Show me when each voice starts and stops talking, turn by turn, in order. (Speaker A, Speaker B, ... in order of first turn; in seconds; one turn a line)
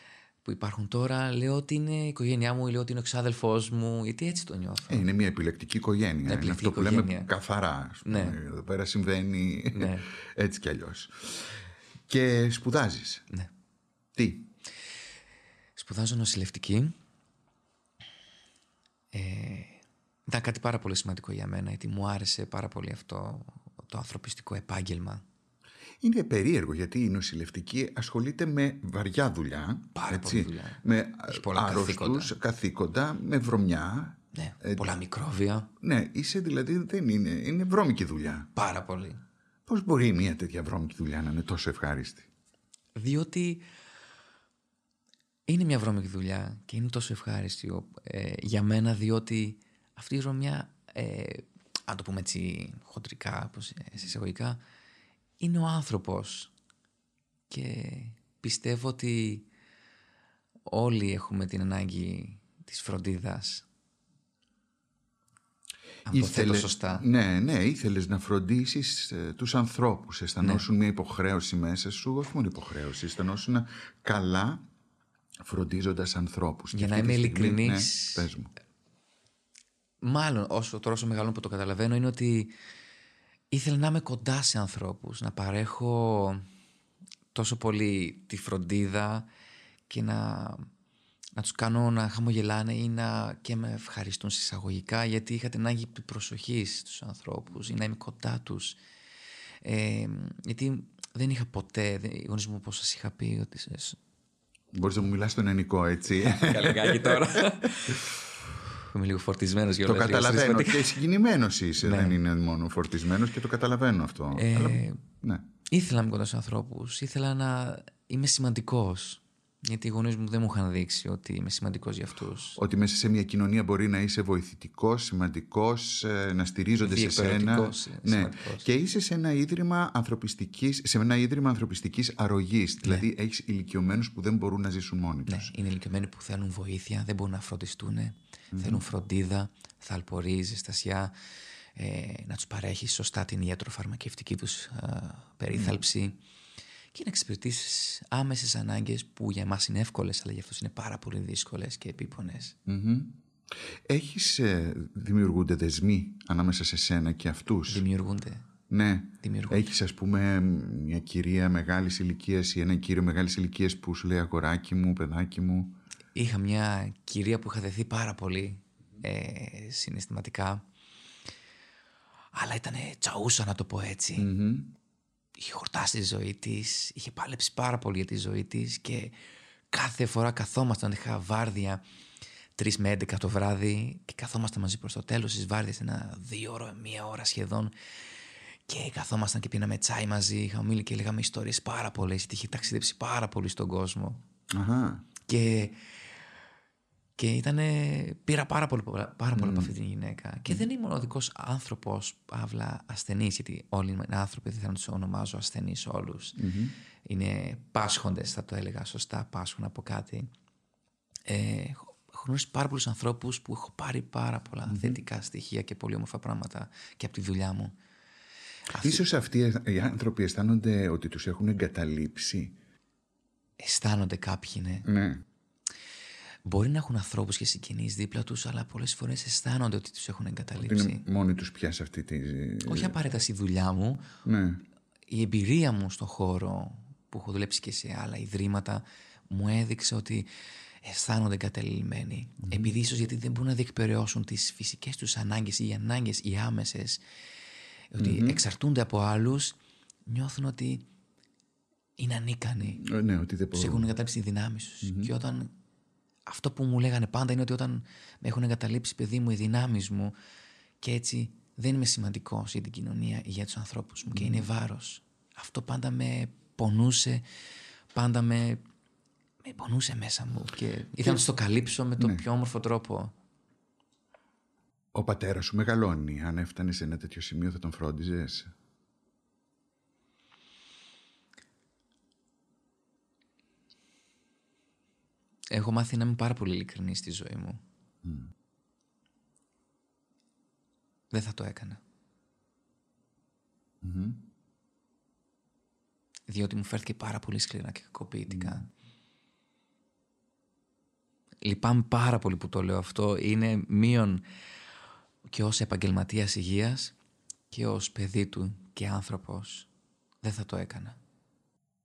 Speaker A: 0.4-5.1
Speaker B: 4.9-11.6
Speaker A: 6.2-7.3
Speaker A: 8.0-8.4
Speaker A: 9.7-10.1
Speaker B: 12.1-13.2
Speaker B: 14.1-14.5
Speaker A: 15.8-16.9
Speaker A: 19.1-25.2
Speaker B: 26.0-34.9
Speaker A: 29.9-32.3
Speaker A: 34.3-35.7
Speaker B: 35.8-38.5
Speaker A: 38.5-39.2
Speaker B: 39.7-42.3
Speaker A: 43.0-43.6
Speaker A: 45.5-54.6
Speaker A: 55.4-56.5
Speaker A: 57.5-59.5
Speaker A: 60.7-63.6
Speaker A: 66.1-67.0
Speaker B: 66.1-74.6
Speaker B: 75.4-78.5
Speaker A: 76.7-78.3
Speaker A: 80.0-82.5
Speaker A: 83.5-86.4
Speaker A: 87.3-89.3
Speaker A: 89.9-90.7
Speaker A: 91.4-98.8
Speaker A: 99.6-104.0
Speaker B: 104.7-108.0
Speaker A: 106.2-108.0
Speaker A: 108.7-111.0
Speaker B: 109.8-115.5
Speaker A: 111.8-112.2
Speaker A: 114.3-115.0
Speaker A: 115.7-122.6
Speaker B: 122.5-135.5
Speaker A: 126.8-128.7
Speaker A: 135.3-141.1
Speaker B: 138.5-138.8
Speaker A: 141.8-146.2
Speaker B: 145.5-145.8
Speaker A: 146.9-152.6
Speaker B: 152.7-153.1
Speaker B: 153.8-157.8
Speaker A: 157.7-158.5
Speaker B: 158.7-165.8
Speaker A: 159.2-159.6
Speaker A: 166.1-170.6
Speaker A: 172.3-174.3
Speaker B: 174.2-174.7
Speaker A: 175.3-179.2
Speaker A: 179.7-181.8
Speaker A: 182.6-187.7
Speaker A: 188.7-194.2
Speaker B: 194.5-195.0
Speaker A: 195.3-195.8
Speaker A: 197.2-206.4
Speaker B: 199.3-199.7
Speaker B: 206.4-206.7
Speaker A: 207.1-210.3
Speaker A: 211.3-217.7
Speaker B: 214.7-215.0
Speaker A: 218.7-219.0
Speaker B: 218.8-222.5
Speaker A: 223.6-224.8
Speaker B: 224.8-225.2
Speaker A: 226.4-231.0
Speaker B: 230.6-232.9
Speaker A: 232.7-234.0
Speaker B: 234.2-234.6
Speaker A: 235.1-240.3
Speaker A: 240.8-247.0
Speaker B: 242.4-242.7
Speaker A: 247.9-250.8
Speaker B: 248.0-248.4
Speaker A: 252.0-252.8
Speaker B: 252.8-253.9
Speaker A: 253.5-255.5
Speaker B: 254.8-255.1
Speaker A: 256.3-260.1
Speaker A: 260.8-267.2
Speaker B: 264.1-264.4
Speaker A: 267.9-268.6
Speaker A: 269.4-273.1
Speaker B: 274.9-278.5
Speaker A: 285.5-287.6
Speaker B: 288.0-288.3
Speaker A: 291.1-291.8
Speaker B: 293.8-294.2
Speaker A: 296.3-298.7
Speaker B: 298.3-298.6
Speaker A: 301.4-304.2
Speaker A: 305.3-306.9
Speaker A: 307.5-309.7
Speaker A: 310.2-311.0